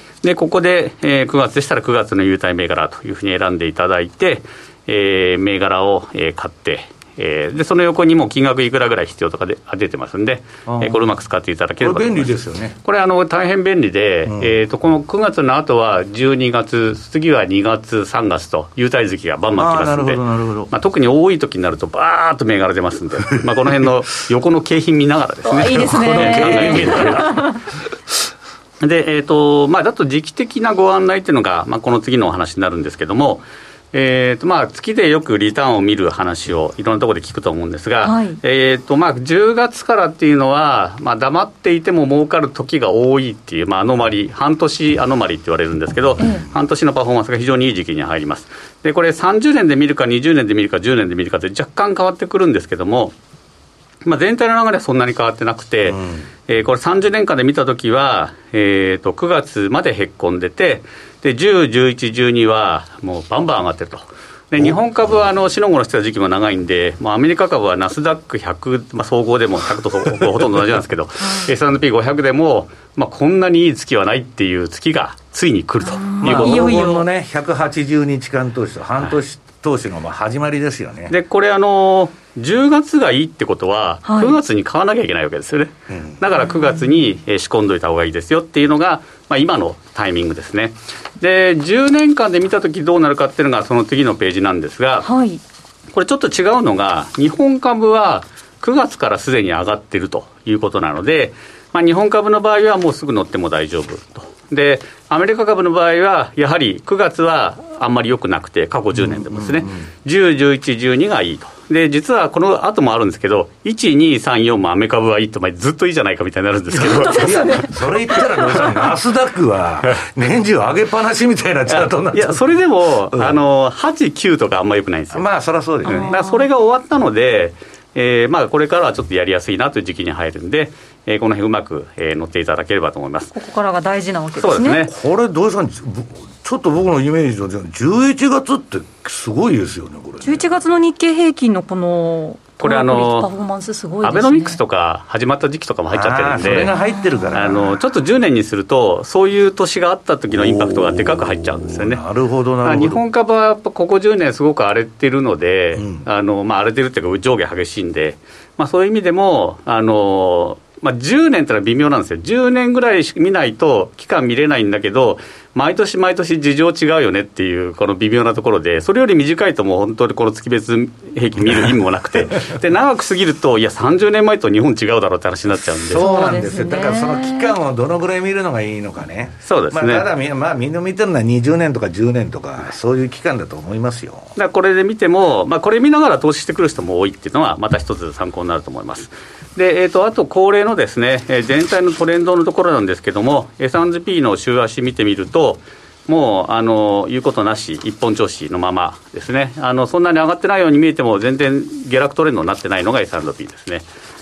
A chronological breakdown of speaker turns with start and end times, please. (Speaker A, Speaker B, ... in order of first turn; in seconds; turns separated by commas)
Speaker A: 0.2-27.3, Speaker B: 10.7-11.1, Speaker B: 11.8-12.8, Speaker B: 14.3-14.5, Speaker B: 19.6-20.7, Speaker C: 25.4-27.5, Speaker B: 25.7-27.5, Speaker A: 28.8-53.1, Speaker C: 38.0-38.4, Speaker C: 46.2-46.4, Speaker A: 54.0-76.8, Speaker B: 55.9-56.2, Speaker C: 75.8-77.0, Speaker B: 76.2-81.1, Speaker A: 81.1-95.1, Speaker C: 84.0-84.4, Speaker B: 85.9-86.2, Speaker C: 95.0-95.4, Speaker A: 95.9-117.7, Speaker B: 108.9-109.8, Speaker C: 116.8-118.4, Speaker B: 117.0-122.4, Speaker A: 118.5-118.8, Speaker A: 121.7-125.2, Speaker B: 123.1-123.4, Speaker B: 125.1-126.1, Speaker A: 125.8-133.3, Speaker C: 125.8-126.5, Speaker C: 133.3-134.8, Speaker A: 134.4-134.9, Speaker B: 134.5-140.6, Speaker C: 140.2-144.6, Speaker A: 142.6-143.3, Speaker A: 144.0-146.7, Speaker B: 145.9-147.8, Speaker C: 146.7-147.3, Speaker A: 147.3-152.0, Speaker B: 150.3-153.0, Speaker A: 152.6-176.1, Speaker B: 155.7-156.1, Speaker B: 175.7-184.3, Speaker C: 176.0-177.5, Speaker A: 179.4-180.0, Speaker A: 184.3-203.8